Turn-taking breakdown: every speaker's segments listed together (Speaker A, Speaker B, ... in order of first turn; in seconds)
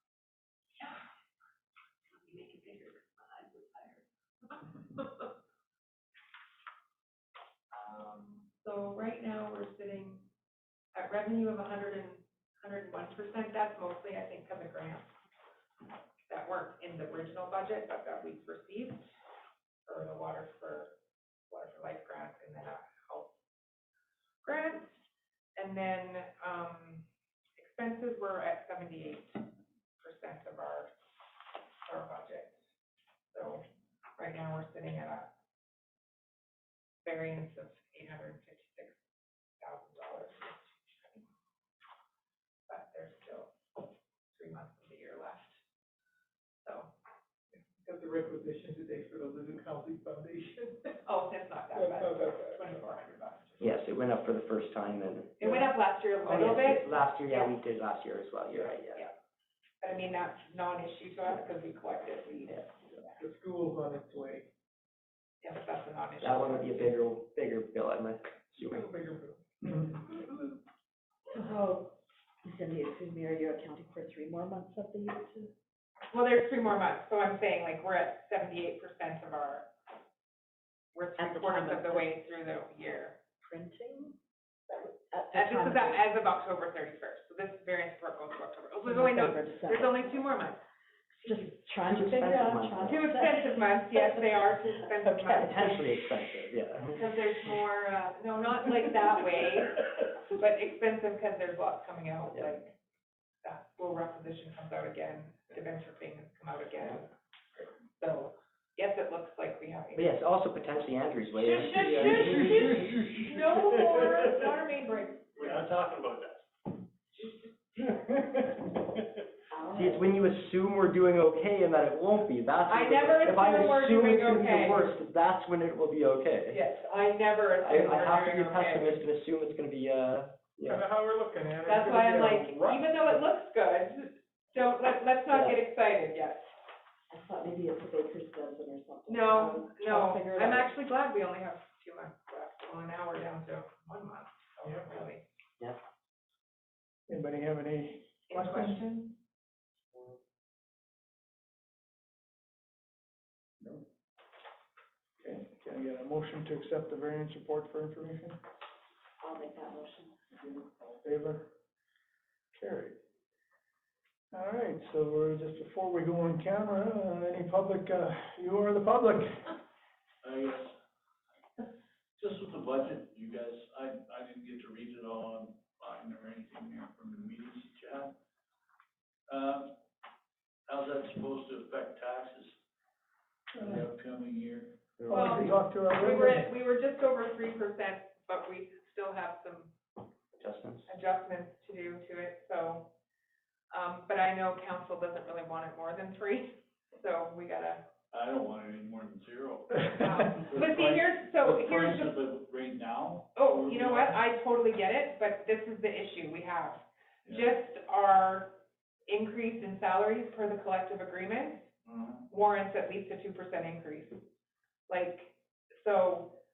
Speaker A: 2.1-5.2, 7.7-10.2, 10.9-15.1, 16.3-19.0, 19.9-20.9, 21.5-23.3, 24.4-24.9, 25.6-27.1, 27.6-30.9, 31.8-32.6, 33.3-33.6, 34.2-35.3, 37.0-39.0, 39.6-41.3, 42.7-45.6, 46.6-46.9, 51.0-53.7, 55.4-57.5, 58.5-59.1, 59.8-63.2, 65.4-67.0, 76.1-79.7, 80.9-83.2, 85.3-90.6, 91.2-95.8, 96.9-102.7, 103.4-110.1, 111.3-115.5, 117.1-118.1, 122.7-125.0, 126.5-129.0, 131.6-136.5, 139.1-145.2, 148.3-149.2, 185.1-189.7, 190.9-192.9, 193.7-197.8, 199.9-202.1, 203.3-211.7, 212.3-214.2, 214.9-216.3
Speaker B: 47.7-50.9, 51.7-52.8, 55.4-55.7, 63.2-64.5, 68.6-70.5, 130.6-132.9, 144.6-145.0, 147.1-148.8, 155.2-158.4, 160.4-161.4, 162.5-163.0, 164.3-169.5, 183.5-183.8, 185.0-186.5
Speaker C: 53.6-55.4, 56.2-59.0, 66.2-68.8, 91.8-93.0, 95.4-97.0, 109.9-112.2, 119.7-126.6, 127.6-130.8, 135.3-135.6, 185.0-185.5, 190.4-190.9
Speaker D: 71.3-75.5, 81.2-82.2, 83.4-84.2, 84.7-86.1, 88.8-90.1, 91.2-94.3, 95.0-95.9, 119.5-120.2, 137.1-140.7, 159.2-160.2
Speaker E: 111.5-114.0, 115.4-116.3, 170.2-170.7, 172.2-178.1, 179.3-179.7, 180.7-182.5, 183.8-184.7, 198.1-199.9, 200.5-204.2, 211.8-212.2